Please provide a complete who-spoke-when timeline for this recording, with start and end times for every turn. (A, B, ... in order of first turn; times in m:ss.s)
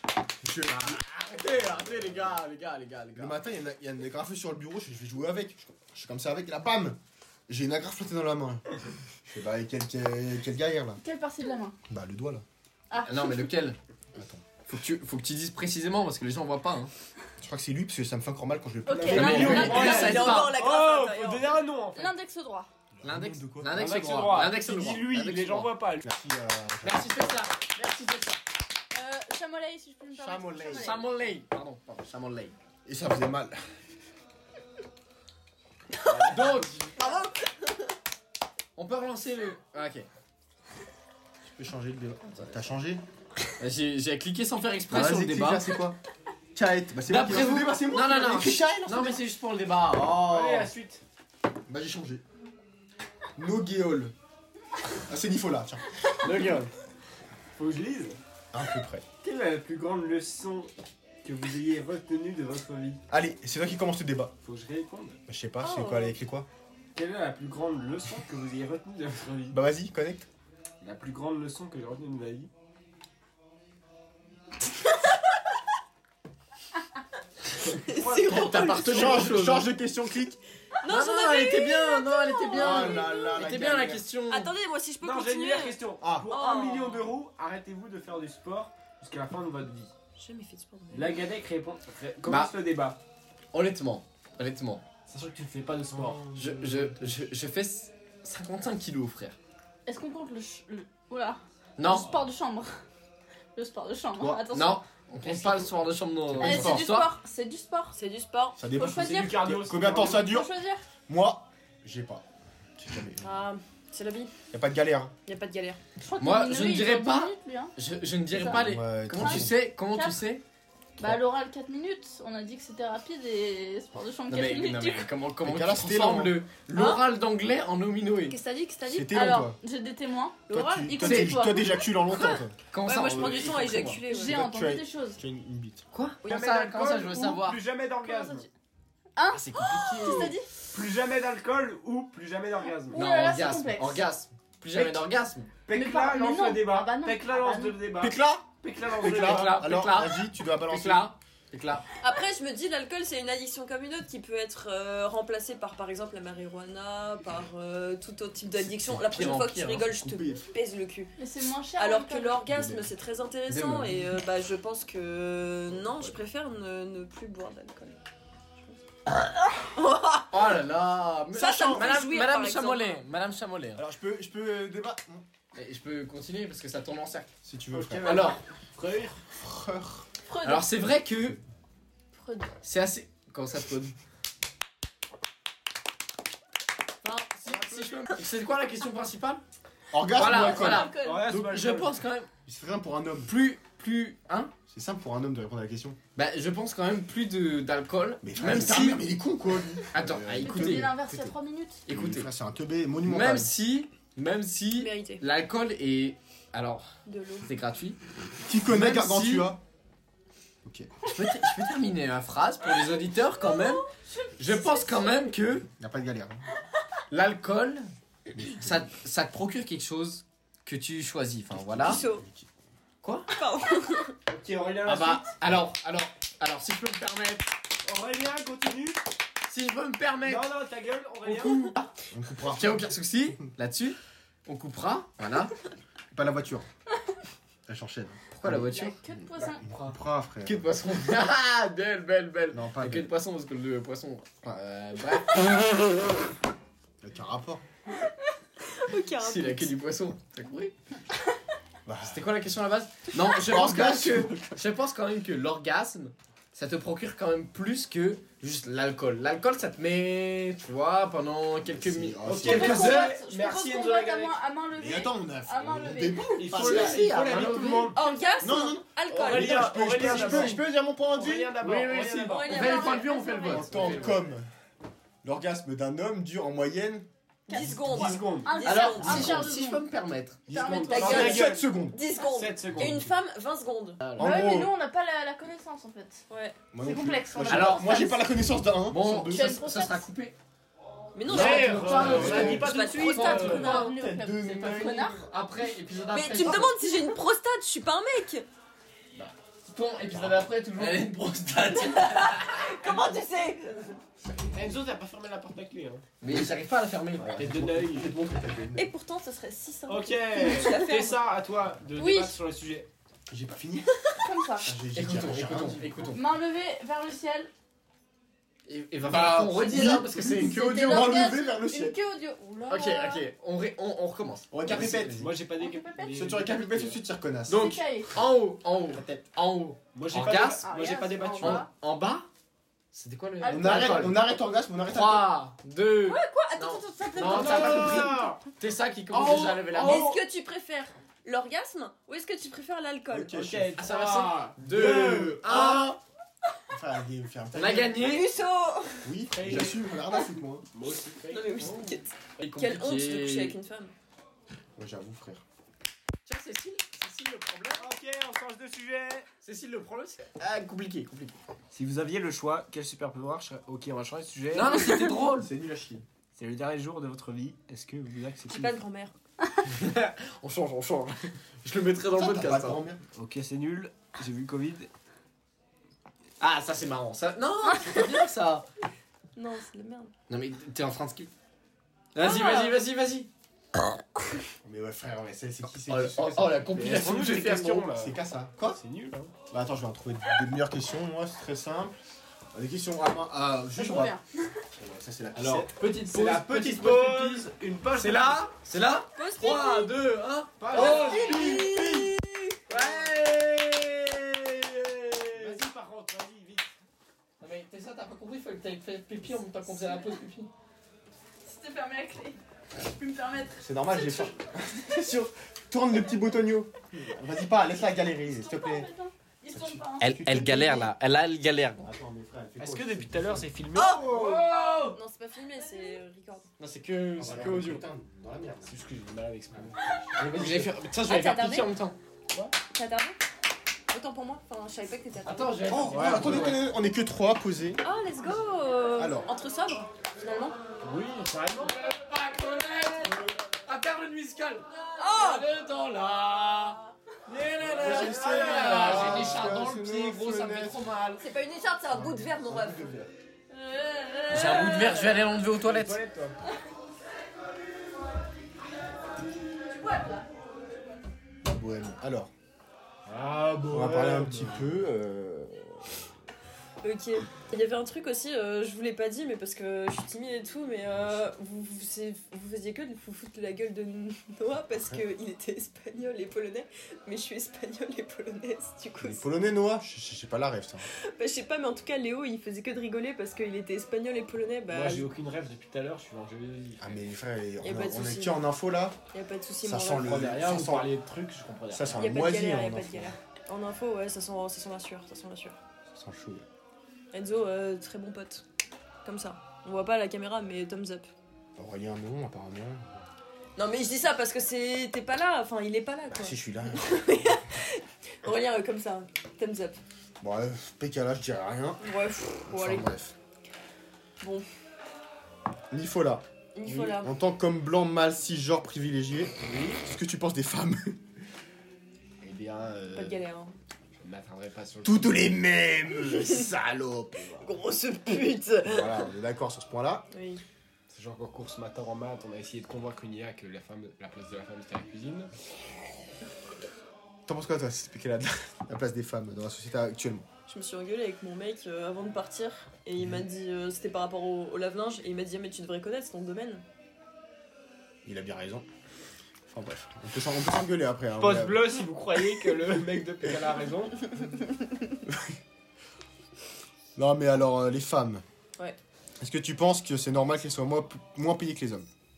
0:00.4-0:01.0 A
0:00.7-0:03.4 B
0:01.7-0:02.4 A
0:03.2-0:08.6 A
0:09.2-0:11.0 A
0:11.0-0:11.8 C
0:11.9-0:12.4 A
0:12.9-0:13.5 C
0:13.0-0:13.8 B
0:14.1-0:14.4 A
0:14.7-0:16.9 B
0:17.4-0:20.0 A
0:18.8-0:20.1 C
0:18.9-0:22.2 D
0:19.1-0:20.6 B
0:19.4-0:21.6 E
0:21.9-0:22.7 C
0:22.9-0:24.3 A
0:23.0-0:25.7 B
0:23.7-0:26.0 D
0:26.0-0:27.4 A
0:26.8-0:28.4 B
0:28.9-0:31.1 C
0:30.1-0:31.0 A
0:30.7-0:32.5 B
0:32.8-0:33.6 A
0:36.0-0:37.8 E
0:36.1-0:37.1 B
0:38.8-0:40.1 B
0:41.4-0:43.0 A
0:43.6-0:45.7 B
0:44.9-0:46.0 A
0:46.5-0:49.2 A
0:47.1-0:50.6 B
0:50.1-0:51.0 D
0:50.2-0:50.7 A
0:51.7-0:52.2 A
0:53.4-0:54.1 A
0:55.0-0:55.8 A
0:56.2-0:56.7 B
0:57.5-0:58.2 D
0:58.5-0:59.0 A
0:59.2-1:00.7 D
1:01.2-1:03.0 D
1:03.1-1:04.3 A
1:04.4-1:05.2 D
1:05.3-1:06.5 A
1:05.6-1:06.2 E
1:06.9-1:09.6 D
1:09.5-1:10.3 A
1:10.8-1:12.5 D
1:17.8-1:19.2 E
1:17.9-1:19.3 D
1:18.2-1:19.7 B
1:18.9-1:20.4 A
1:20.8-1:23.4 E
1:20.8-1:24.5 B
1:22.5-1:24.0 A
1:24.3-1:27.1 E
1:25.0-1:29.9 D
1:26.0-1:26.3 A
1:30.2-1:31.2 E
1:30.9-1:33.0 D
1:32.2-1:32.5 B
1:33.5-1:34.8 B
1:35.1-1:36.3 D
1:35.9-1:37.3 A
1:36.3-1:39.4 B
1:39.8-1:42.8 C
1:41.8-1:42.1 B
1:43.5-1:44.8 C
1:44.3-1:47.1 B
1:45.3-1:45.6 A
1:46.3-1:46.8 A
1:46.4-1:48.0 C
1:47.9-1:48.6 E
1:48.6-1:50.5 A
1:48.7-1:50.8 C
1:48.9-1:50.3 D
1:51.1-1:52.2 A
1:52.8-1:53.3 A
1:53.2-1:54.3 E
1:54.5-1:55.1 A
1:55.2-1:55.8 E
1:56.0-1:57.7 C
1:56.2-2:00.4 B
1:58.3-1:58.6 C
1:58.3-1:59.5 A
1:59.1-2:00.2 C
2:01.0-2:05.1 C
2:04.3-2:08.4 B
2:05.4-2:06.9 A
2:08.3-2:09.2 E
2:08.8-2:09.6 A
2:09.1-2:11.9 C
2:10.5-2:12.6 A
2:10.5-2:10.8 E
2:11.0-2:11.4 B
2:12.7-2:14.0 B
2:12.8-2:14.4 E
2:13.1-2:13.4 A
2:14.1-2:15.2 C
2:14.1-2:15.8 A
2:15.9-2:17.6 B
2:16.3-2:18.5 D
2:18.0-2:18.5 C
2:19.2-2:20.5 C
2:19.3-2:20.4 B
2:20.7-2:23.0 D
2:22.9-2:24.1 C
2:22.9-2:25.5 B
2:25.6-2:29.7 D
2:25.7-2:27.8 C
2:28.0-2:31.1 A
2:29.0-2:31.8 B
2:32.0-2:41.2 E
2:38.8-2:39.9 B
2:39.9-2:40.5 A
2:41.2-2:42.4 C
2:41.8-2:48.0 E
2:42.5-2:42.9 A
2:43.5-2:44.1 B
2:49.7-2:50.6 E
2:50.3-2:53.8 B
2:51.3-2:53.0 E
2:53.8-2:55.2 A
2:55.5-2:57.3 B
2:57.4-2:58.2 A
2:57.7-2:59.2 D
2:58.0-2:58.4 B
2:59.3-3:00.0 A
3:00.2-3:00.7 C
3:00.4-3:01.4 B
3:02.1-3:02.5 C
3:02.6-3:03.9 B
3:07.0-3:09.4 B
3:07.4-3:08.1 D
3:09.9-3:10.9 A
3:10.1-3:12.3 B
3:10.2-3:11.3 C
3:11.0-3:12.0 D
3:12.4-3:13.3 A
3:13.2-3:14.5 B
3:14.6-3:16.0 A
3:16.1-3:19.1 B
3:18.2-3:21.3 A
3:19.9-3:21.0 B
3:20.4-3:21.8 C
3:21.8-3:22.3 B
3:21.9-3:23.5 A
3:23.0-3:26.8 B
3:24.8-3:25.2 E
3:27.0-3:27.5 E
3:27.4-3:28.0 B
3:28.4-3:29.6 A
3:28.6-3:29.5 B
3:30.6-3:30.9 A
3:31.0-3:33.8 B
3:33.4-3:35.3 C
3:34.4-3:35.7 B
3:35.8-3:36.4 A
3:37.1-3:42.0 B
3:38.3-3:38.9 A
3:41.5-3:42.5 A
3:41.8-3:42.2 E
3:43.0-3:43.3 B
3:43.3-3:44.1 E
3:44.3-3:45.4 D
3:44.8-3:47.5 B
3:47.8-3:49.0 D
3:49.4-3:50.5 B
3:50.2-3:51.7 D
3:51.2-3:51.9 B
3:52.1-3:52.9 A
3:52.4-3:55.5 B
3:56.1-3:56.7 A
3:57.7-3:58.8 A
3:58.3-3:59.0 B
3:58.7-3:59.6 C
3:59.6-4:05.7 B
3:59.6-4:00.7 A
4:02.5-4:03.1 A
4:07.0-4:07.6 A
4:08.7-4:09.7 E
4:09.2-4:10.7 B
4:11.8-4:12.3 A
4:12.0-4:23.1 B
4:13.4-4:14.6 A
4:21.7-4:23.1 A
4:22.2-4:24.4 D
4:22.4-4:26.4 C
4:24.7-4:27.5 A
4:26.4-4:28.0 D
4:26.5-4:28.0 B
4:27.9-4:30.5 E
4:28.4-4:31.6 A
4:29.1-4:32.9 D
4:30.0-4:30.4 B
4:31.6-4:34.2 B
4:32.2-4:33.2 E
4:32.2-4:34.0 C
4:33.4-4:34.5 A
4:33.7-4:34.1 D
4:35.2-4:37.1 A
4:37.5-4:39.5 E
4:37.5-4:39.9 C
4:37.5-4:39.1 D
4:38.6-4:40.5 B
4:40.5-4:41.4 C
4:40.5-4:42.0 A
4:40.8-4:43.1 D
4:40.9-4:44.0 E
4:42.8-4:43.0 A
4:44.0-4:44.4 B
4:44.1-4:44.7 A
4:44.2-4:46.2 C
4:46.3-4:46.6 E
4:46.7-4:49.6 A
4:46.8-4:48.2 C
4:47.5-4:48.2 B
4:48.9-4:50.4 B
4:49.3-4:50.1 C
4:51.1-4:53.9 E
4:51.3-4:53.7 D
4:51.3-4:53.9 B
4:51.3-4:52.7 A
4:52.1-4:55.2 C
4:53.7-4:55.3 A
4:54.6-4:56.8 B
4:56.1-4:58.4 E
4:59.2-5:03.0 B
5:00.1-5:00.4 A
5:01.8-5:03.9 E
5:04.5-5:06.0 D
5:06.2-5:07.4 B
5:07.2-5:08.9 A
5:07.3-5:08.1 D
5:08.7-5:11.2 E
5:09.9-5:12.9 D
5:12.0-5:12.3 C
5:13.3-5:14.0 A
5:14.2-5:14.7 C
5:14.6-5:16.1 A
5:14.9-5:16.2 B
5:16.1-5:17.5 C
5:18.7-5:21.3 B
5:19.0-5:22.0 A
5:19.6-5:23.3 C
5:22.7-5:25.3 B
5:24.5-5:25.3 A
5:24.7-5:27.0 D
5:25.6-5:26.1 C
5:26.1-5:27.8 A
5:27.5-5:30.7 B
5:27.5-5:28.1 C
5:29.9-5:31.7 D
5:30.6-5:31.7 C
5:31.4-5:32.3 B
5:32.9-5:34.2 B
5:33.4-5:34.1 C
5:33.4-5:35.3 A
5:34.9-5:40.2 B
5:36.0-5:38.1 E
5:36.7-5:38.0 C
5:37.2-5:38.4 D
5:39.1-5:40.2 D
5:39.7-5:43.4 E
5:43.1-5:43.8 A
5:43.3-5:45.8 D
5:43.8-5:46.0 B
5:44.7-5:45.5 A
5:46.7-5:48.1 A
5:47.5-5:48.3 B
5:48.0-5:49.1 E
5:49.0-5:50.6 A
5:49.3-5:49.8 D
5:50.7-5:51.6 D
5:51.3-5:53.9 E
5:51.6-5:53.6 B
5:54.8-5:55.4 A
5:56.2-5:57.9 B
5:57.8-5:59.3 D
5:59.4-6:01.4 B
6:01.7-6:05.2 D
6:04.5-6:05.5 B
6:05.3-6:06.0 A
6:06.4-6:08.8 D
6:08.5-6:09.1 E
6:09.6-6:12.8 B
6:12.1-6:13.0 A
6:13.1-6:14.9 D
6:16.4-6:18.6 B
6:19.4-6:20.1 E
6:20.3-6:21.3 B
6:22.1-6:23.3 B
6:22.2-6:22.6 E
6:24.6-6:28.8 A
6:25.8-6:27.8 B
6:26.7-6:29.3 D
6:29.5-6:32.0 A
6:32.5-6:34.1 A
6:33.7-6:34.2 C
6:34.7-6:35.7 A
6:35.4-6:41.7 B
6:36.0-6:38.5 D
6:39.2-6:39.9 E
6:40.6-6:41.9 D
6:40.7-6:42.6 E
6:42.7-6:43.1 D
6:42.7-6:45.6 B
6:45.3-6:46.7 D
6:47.4-6:50.5 B
6:51.4-6:54.3 C
6:53.6-6:58.9 A
6:58.2-7:00.4 C
6:59.5-7:00.9 A
7:00.0-7:01.9 B
7:01.8-7:03.5 A
7:02.6-7:04.2 D
7:03.8-7:04.4 E
7:03.8-7:05.0 B
7:04.9-7:06.5 E
7:05.6-7:06.0 C
7:06.6-7:07.8 B
7:07.2-7:08.8 A
7:08.6-7:09.8 D
7:10.2-7:12.0 B
7:10.3-7:10.7 D
7:11.0-7:11.7 E
7:12.7-7:13.2 E
7:13.9-7:15.8 E
7:15.2-7:16.6 B
7:15.7-7:17.8 A
7:15.9-7:16.5 D
7:17.8-7:20.6 E
7:19.0-7:19.3 A
7:20.8-7:21.8 D
7:21.6-7:31.2 B
7:25.0-7:25.5 E
7:27.6-7:29.4 D
7:27.7-7:30.9 A
7:31.2-7:32.9 E
7:31.9-7:33.1 A
7:33.5-7:35.3 C
7:34.3-7:36.0 B
7:35.5-7:36.4 D
7:39.6-7:40.2 C
7:41.4-7:42.3 A
7:43.0-7:44.8 D
7:43.7-7:45.8 A
7:46.8-7:59.2 E
7:59.0-8:00.9 A
8:01.0-8:05.1 E
8:04.7-8:07.0 D
8:06.8-8:09.0 A
8:07.6-8:08.5 E
8:09.1-8:10.2 E
8:09.6-8:10.9 A
8:09.9-8:12.0 D
8:11.7-8:13.1 A
8:11.9-8:15.6 E
8:15.9-8:16.4 A
8:17.1-8:18.4 E
8:19.0-8:21.1 E
8:21.6-8:23.0 A
8:23.6-8:29.8 E
8:26.1-8:27.2 A
8:30.2-8:31.8 A
8:31.8-8:32.9 E
8:32.4-8:33.2 A
8:34.2-8:34.5 E
8:35.7-8:36.2 A
8:36.5-8:37.1 E
8:36.6-8:36.9 D
8:36.8-8:41.0 A
8:39.4-8:39.8 D
8:42.2-8:43.2 D
8:42.9-8:43.6 E
8:44.0-8:45.3 D
8:44.8-8:47.5 A
8:46.2-8:46.4 E
8:47.4-8:49.1 E
8:48.6-8:50.1 A
8:50.1-8:50.4 E
8:50.9-8:55.3 D
8:57.2-9:00.3 A
9:00.5-9:06.6 E
9:08.0-9:08.6 A
9:09.5-9:11.7 A
9:11.2-9:14.0 D
9:15.1-9:15.4 A
9:16.9-9:18.2 A
9:19.2-9:21.9 A